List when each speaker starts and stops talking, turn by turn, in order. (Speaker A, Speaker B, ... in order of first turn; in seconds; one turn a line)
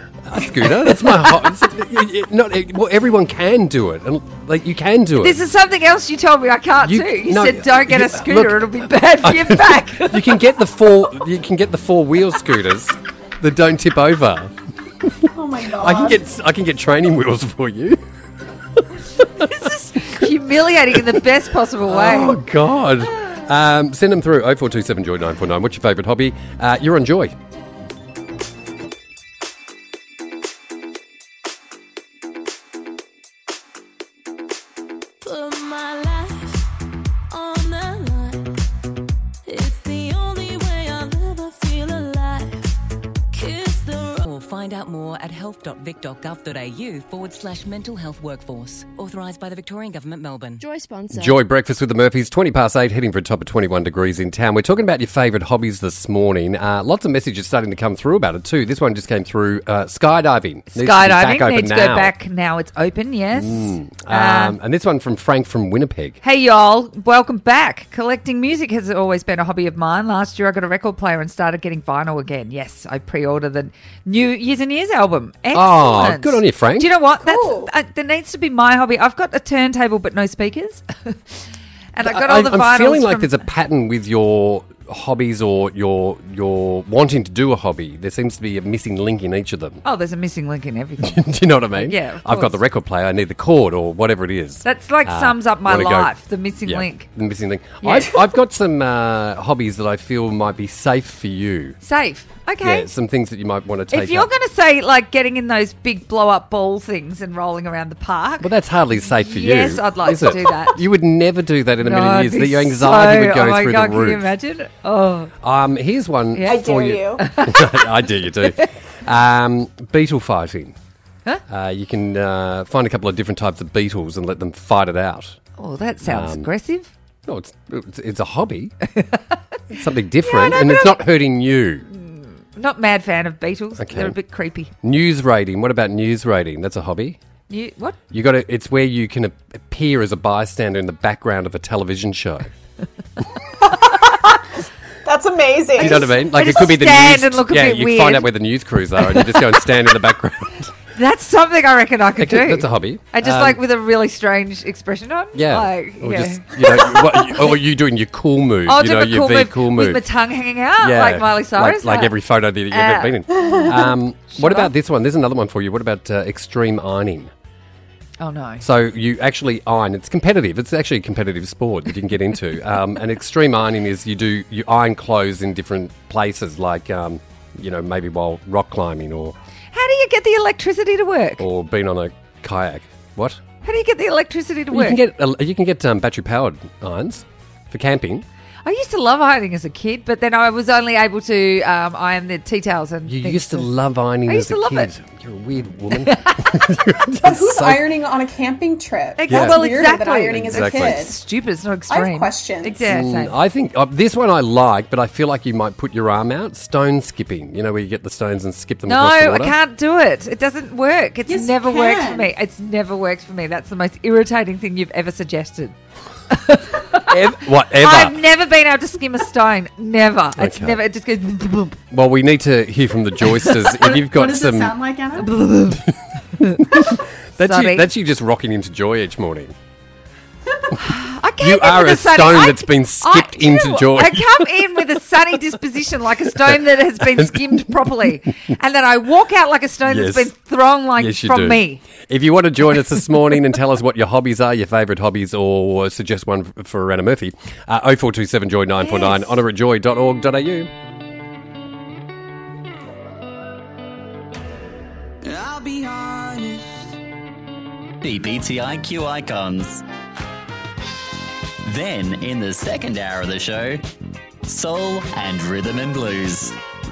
Speaker A: 0.2-5.4
Speaker B: 0.7-1.4
Speaker B: 5.2-10.4
Speaker A: 6.8-14.5
Speaker C: 15.3-16.2
Speaker A: 15.8-18.0
Speaker B: 19.4-22.4
Speaker A: 19.4-19.7
Speaker A: 21.9-27.3
Speaker D: 35.2-36.7
Speaker D: 37.3-38.5
Speaker D: 39.5-42.7
Speaker D: 43.3-44.2
Speaker E: 44.2-50.7
Speaker D: 50.6-51.3
Speaker A: 51.1-62.1
Speaker B: 60.7-64.6
Speaker A: 63.3-66.2
Speaker B: 66.2-81.2
Speaker A: 75.5-76.9
Speaker C: 77.2-77.7
Speaker B: 81.9-83.4
Speaker A: 82.0-89.8
Speaker B: 89.8-92.6
Speaker A: 91.0-96.1
Speaker B: 94.6-97.1
Speaker A: 96.7-101.8
Speaker B: 97.8-98.3
Speaker B: 101.8-102.9
Speaker A: 102.6-104.3
Speaker B: 103.9-108.5
Speaker A: 108.4-114.3
Speaker B: 109.1-110.8
Speaker B: 111.8-115.3
Speaker A: 115.4-120.8
Speaker B: 116.3-117.8
Speaker C: 116.4-117.3
Speaker B: 118.4-118.7
Speaker A: 121.5-125.4
Speaker B: 125.6-126.9
Speaker A: 126.0-126.5
Speaker A: 127.3-128.7
Speaker A: 129.7-131.9
Speaker B: 130.2-131.0
Speaker B: 131.9-134.7
Speaker A: 133.8-134.2
Speaker A: 134.8-137.2
Speaker B: 137.5-138.0
Speaker A: 138.1-142.5
Speaker C: 143.8-144.3
Speaker C: 145.1-146.1
Speaker A: 145.8-150.7
Speaker B: 145.8-148.4
Speaker B: 149.1-149.6
Speaker B: 150.9-157.6
Speaker A: 152.2-153.6
Speaker A: 155.3-160.1
Speaker B: 158.7-162.2
Speaker A: 160.8-167.3
Speaker B: 162.7-164.7
Speaker B: 168.2-168.7
Speaker A: 168.6-179.4
Speaker B: 179.7-181.4
Speaker A: 181.4-183.4
Speaker B: 183.6-185.0
Speaker A: 184.7-188.3
Speaker B: 188.7-193.7
Speaker A: 193.1-197.9
Speaker B: 194.3-194.9
Speaker B: 195.9-196.5
Speaker C: 197.2-201.2
Speaker B: 199.2-203.3
Speaker A: 199.3-199.7
Speaker A: 200.3-201.1
Speaker C: 201.9-203.0
Speaker A: 202.9-209.6
Speaker B: 208.9-215.8
Speaker C: 211.3-212.3
Speaker B: 216.3-217.2
Speaker A: 217.1-218.2
Speaker B: 217.7-221.8
Speaker A: 220.4-220.8
Speaker A: 221.9-224.8
Speaker C: 223.7-225.5
Speaker B: 225.2-225.8
Speaker B: 226.4-227.9
Speaker A: 226.4-229.6
Speaker B: 230.8-241.8
Speaker A: 231.4-234.5
Speaker A: 236.4-238.1
Speaker A: 239.9-240.3
Speaker A: 240.9-250.7
Speaker D: 255.3-256.7
Speaker F: 258.0-259.8
Speaker F: 261.6-263.8
Speaker F: 264.4-266.6